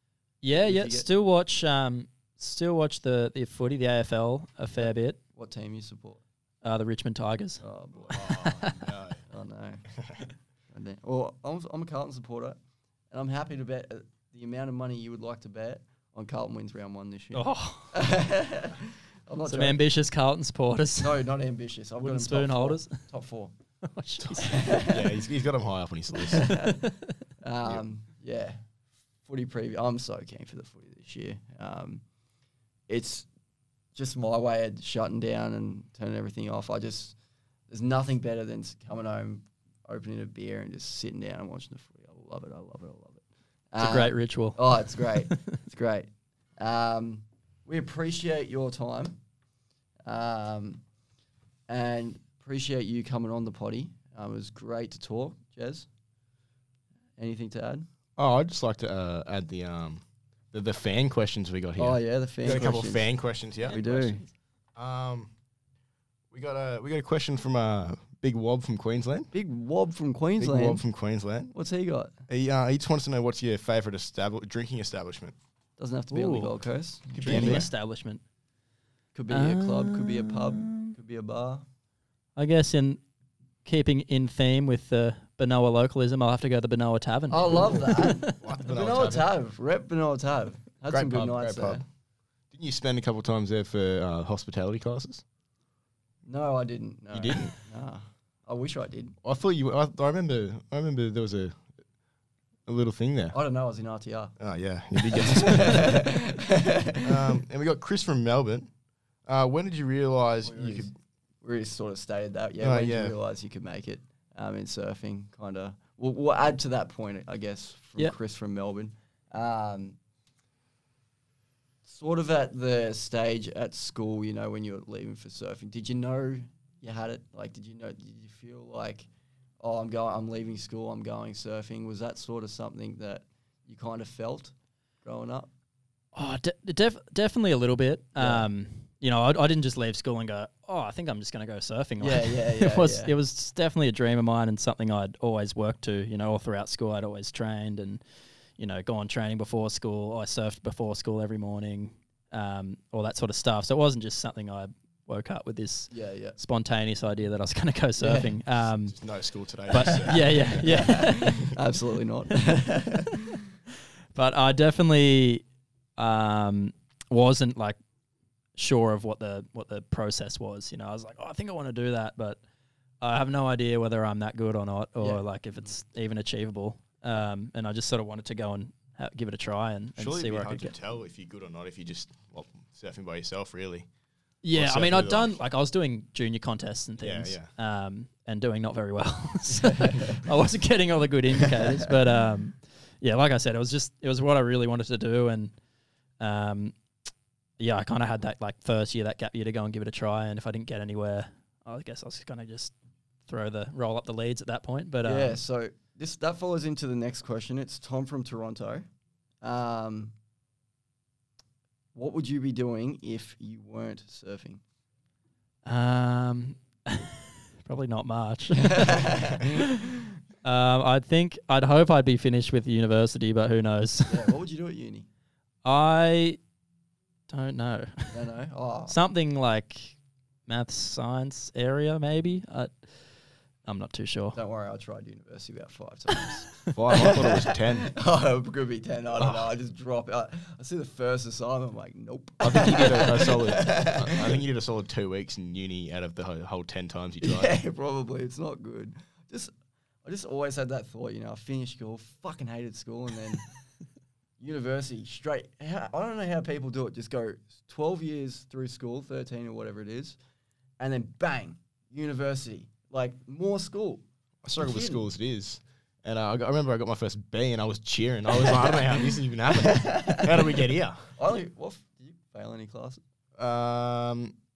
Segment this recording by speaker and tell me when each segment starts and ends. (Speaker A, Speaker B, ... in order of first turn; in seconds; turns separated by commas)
Speaker A: 0.4-5.2, Speaker B: 0.5-1.1, Speaker B: 4.8-6.2, Speaker A: 6.6-8.7, Speaker B: 7.6-10.1, Speaker C: 8.1-9.2, Speaker C: 9.9-10.2, Speaker B: 10.7-12.6, Speaker B: 13.1-19.8, Speaker A: 17.3-18.0, Speaker A: 19.4-21.2, Speaker B: 21.0-23.5, Speaker A: 22.0-23.1, Speaker A: 23.8-24.6, Speaker B: 24.4-25.2, Speaker C: 24.9-26.6, Speaker B: 26.3-26.7, Speaker A: 26.5-27.1, Speaker B: 27.4-28.6, Speaker B: 29.2-32.0, Speaker B: 32.9-33.2, Speaker B: 33.9-37.1, Speaker B: 37.7-49.2, Speaker A: 43.8-45.5, Speaker B: 50.0-50.8, Speaker B: 51.7-55.9, Speaker B: 57.2-57.9, Speaker C: 58.2-63.8, Speaker B: 61.8-63.1, Speaker B: 63.7-64.2, Speaker A: 63.7-64.3, Speaker C: 64.7-65.3, Speaker C: 66.3-69.3, Speaker B: 69.3-70.9, Speaker C: 70.4-71.5, Speaker B: 71.5-72.2, Speaker C: 72.3-75.4, Speaker B: 75.8-77.7, Speaker A: 76.1-76.5, Speaker A: 77.1-78.2, Speaker C: 77.2-77.7, Speaker B: 79.1-81.6, Speaker A: 79.3-80.9, Speaker A: 82.4-83.0, Speaker A: 83.6-88.4, Speaker B: 87.3-91.8, Speaker C: 88.3-89.3, Speaker C: 90.9-91.8, Speaker C: 92.5-95.2, Speaker B: 96.2-99.2, Speaker C: 97.1-97.5, Speaker C: 99.2-101.7, Speaker C: 102.7-103.4, Speaker B: 103.3-104.4, Speaker C: 104.4-106.1, Speaker B: 105.1-107.3, Speaker C: 107.0-108.7, Speaker C: 109.2-110.9, Speaker B: 110.4-110.9, Speaker B: 111.4-120.0, Speaker C: 112.6-113.1, Speaker B: 121.8-129.1, Speaker B: 129.6-135.5, Speaker A: 136.1-148.0, Speaker B: 138.2-138.5, Speaker B: 142.0-143.1, Speaker A: 148.6-158.9, Speaker B: 155.9-156.4, Speaker B: 158.0-158.3, Speaker C: 158.7-161.3, Speaker A: 159.7-161.5, Speaker B: 159.8-163.3, Speaker A: 164.1-165.4, Speaker A: 166.0-167.8, Speaker A: 168.6-172.4, Speaker A: 173.0-180.7, Speaker C: 179.9-183.9, Speaker A: 184.4-195.5, Speaker C: 184.5-185.3, Speaker C: 187.0-187.5, Speaker A: 196.2-196.8, Speaker A: 197.6-202.7, Speaker A: 203.3-205.4, Speaker B: 205.0-208.9, Speaker B: 209.4-210.1, Speaker B: 211.9-214.6, Speaker A: 215.6-219.6, Speaker B: 218.6-219.6, Speaker A: 220.4-224.3, Speaker B: 224.1-225.1, Speaker A: 225.6-226.4, Speaker A: 227.3-228.2, Speaker B: 228.1-229.0, Speaker A: 228.9-232.9, Speaker A: 233.6-234.4, Speaker B: 234.3-244.4, Speaker C: 236.7-237.9, Speaker C: 239.2-239.5, Speaker C: 242.4-247.6, Speaker B: 247.2-249.5, Speaker B: 250.0-253.5, Speaker B: 254.4-260.2, Speaker B: 260.8-264.0, Speaker C: 264.4-271.1, Speaker B: 264.6-265.1, Speaker B: 269.7-270.4, Speaker B: 271.1-273.0, Speaker C: 273.4-274.4